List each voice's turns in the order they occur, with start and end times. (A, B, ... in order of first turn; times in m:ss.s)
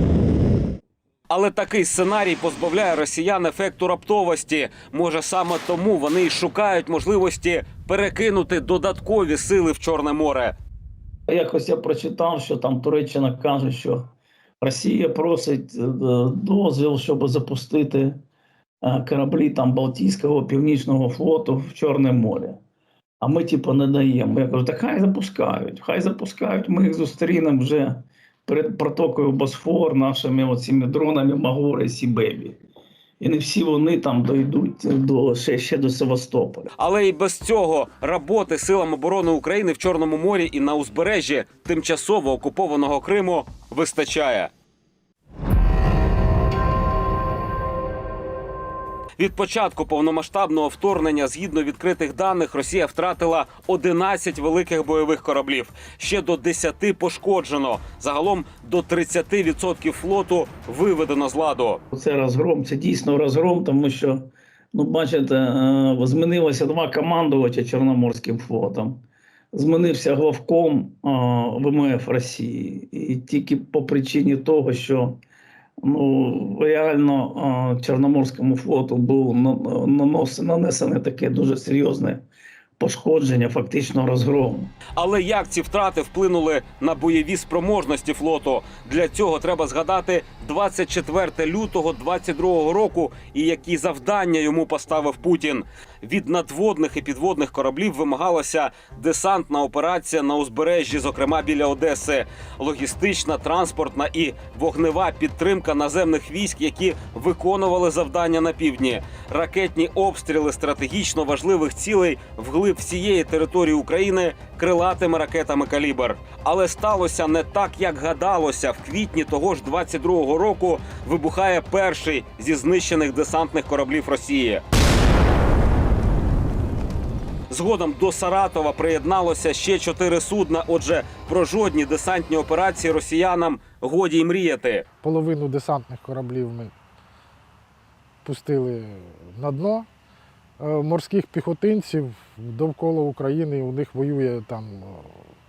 0:01.3-0:10.5 A
0:11.3-0:18.2 B
0:18.8-0:22.6 B
0:23.2-0:32.6 B
0:33.2-0:36.7 B
0:36.8-0:44.5 A
0:49.2-1:01.8 A
1:01.9-1:09.0 B
1:09.5-1:15.2 B
1:15.8-1:22.2 B
1:22.8-1:24.8 B
1:24.9-2:04.6 A
2:07.5-2:14.8 A
2:15.0-2:16.7 C
2:18.2-2:19.9 C
2:20.6-2:25.1 C